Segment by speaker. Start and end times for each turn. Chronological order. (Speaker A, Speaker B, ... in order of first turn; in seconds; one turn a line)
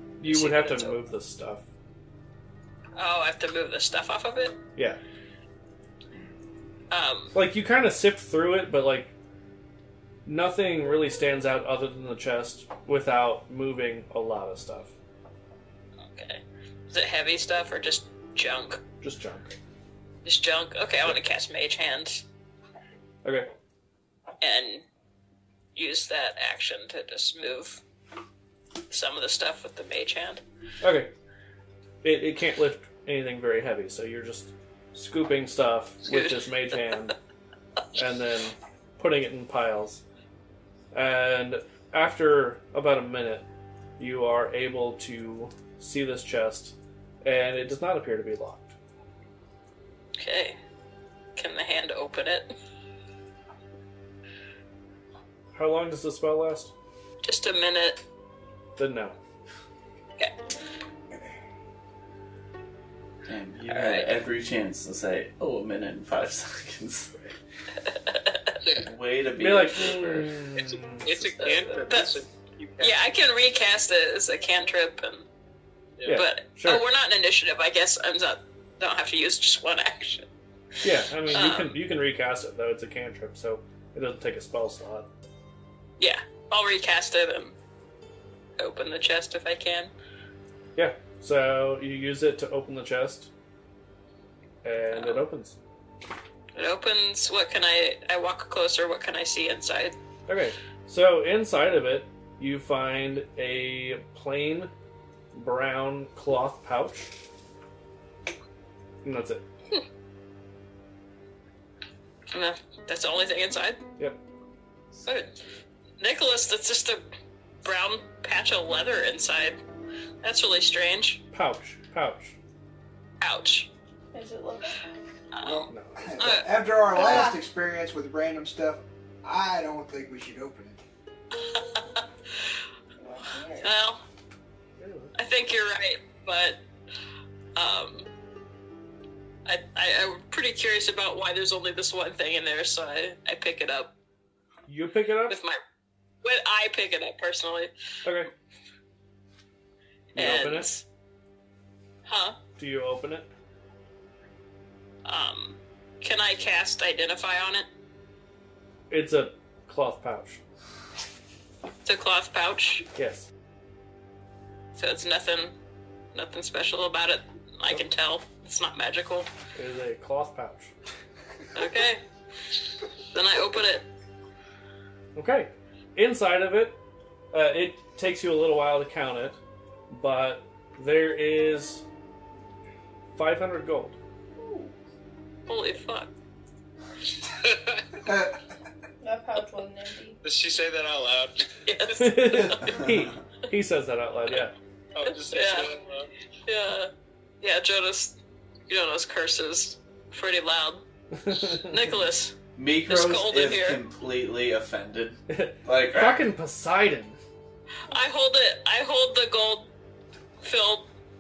Speaker A: 0.2-1.6
Speaker B: 0.2-1.0
Speaker B: 3.0-4.6
Speaker B: 6.9-7.3
Speaker A: 7.3-9.1
Speaker A: 10.2-14.9
Speaker B: 16.0-18.8
Speaker A: 19.0-19.5
Speaker B: 20.2-22.2
Speaker B: 24.4-24.9
Speaker B: 25.7-27.8
Speaker B: 28.9-30.4
Speaker A: 30.8-31.1
Speaker A: 32.0-37.1
Speaker B: 36.0-36.8
Speaker A: 38.0-40.0
Speaker A: 40.9-43.5
Speaker A: 44.0-48.7
Speaker B: 50.2-50.6
Speaker B: 51.4-52.5
Speaker A: 55.5-56.7
Speaker B: 57.2-58.0
Speaker A: 58.8-59.2
Speaker C: 63.3-67.3
Speaker B: 63.7-64.1
Speaker B: 68.1-68.5
Speaker C: 68.8-70.3
Speaker A: 69.4-71.3
Speaker D: 70.6-73.0
Speaker B: 71.4-72.2
Speaker B: 72.8-75.3
Speaker A: 76.0-76.8
Speaker B: 76.0-80.3
Speaker A: 80.8-85.1
Speaker B: 80.9-81.8
Speaker B: 86.0-87.5
Speaker B: 88.6-89.9
Speaker A: 90.8-93.3
Speaker A: 94.6-95.6
Speaker B: 94.9-95.2
Speaker B: 96.5-100.0
Speaker A: 100.3-104.7
Speaker A: 105.3-107.1
Speaker A: 109.0-109.4
Speaker B: 112.3-113.8
Speaker C: 114.9-115.4
Speaker B: 115.0-115.3
Speaker B: 116.0-117.0
Speaker B: 117.6-119.6
Speaker B: 120.2-121.2
Speaker A: 121.3-122.4
Speaker B: 123.2-123.7
Speaker E: 124.1-124.8
Speaker B: 125.3-126.5
Speaker F: 125.4-130.8
Speaker A: 125.7-126.2
Speaker E: 127.0-127.4
Speaker B: 131.3-132.0
Speaker E: 133.0-133.7
Speaker B: 133.6-134.0
Speaker A: 134.8-135.1
Speaker B: 135.1-136.6
Speaker B: 137.6-138.1
Speaker B: 139.4-143.9
Speaker A: 144.7-145.4
Speaker B: 145.3-145.6
Speaker B: 146.2-147.7
Speaker A: 148.1-148.3
Speaker A: 150.1-150.7
Speaker B: 150.1-150.8
Speaker B: 152.1-152.4
Speaker A: 152.6-153.3
Speaker B: 155.1-157.7
Speaker A: 158.9-160.4
Speaker B: 161.8-162.9
Speaker A: 162.9-163.3
Speaker B: 164.7-165.6
Speaker B: 166.1-169.3
Speaker A: 169.6-170.7
Speaker B: 171.6-172.0
Speaker B: 173.1-173.9
Speaker A: 175.1-176.8
Speaker A: 177.3-179.4
Speaker A: 179.9-181.8
Speaker A: 183.2-184.0
Speaker B: 185.5-186.1
Speaker D: 187.4-187.8
Speaker F: 188.1-188.4
Speaker E: 189.0-190.2
Speaker D: 190.2-191.6
Speaker B: 191.6-192.8
Speaker A: 191.9-194.5
Speaker C: 192.6-193.1
Speaker D: 194.9-196.1
Speaker B: 195.0-195.8
Speaker B: 196.4-202.4
Speaker A: 201.2-201.8
Speaker C: 202.6-206.3
Speaker B: 202.9-203.8
Speaker A: 205.3-207.2
Speaker B: 207.9-209.7
Speaker B: 210.4-210.9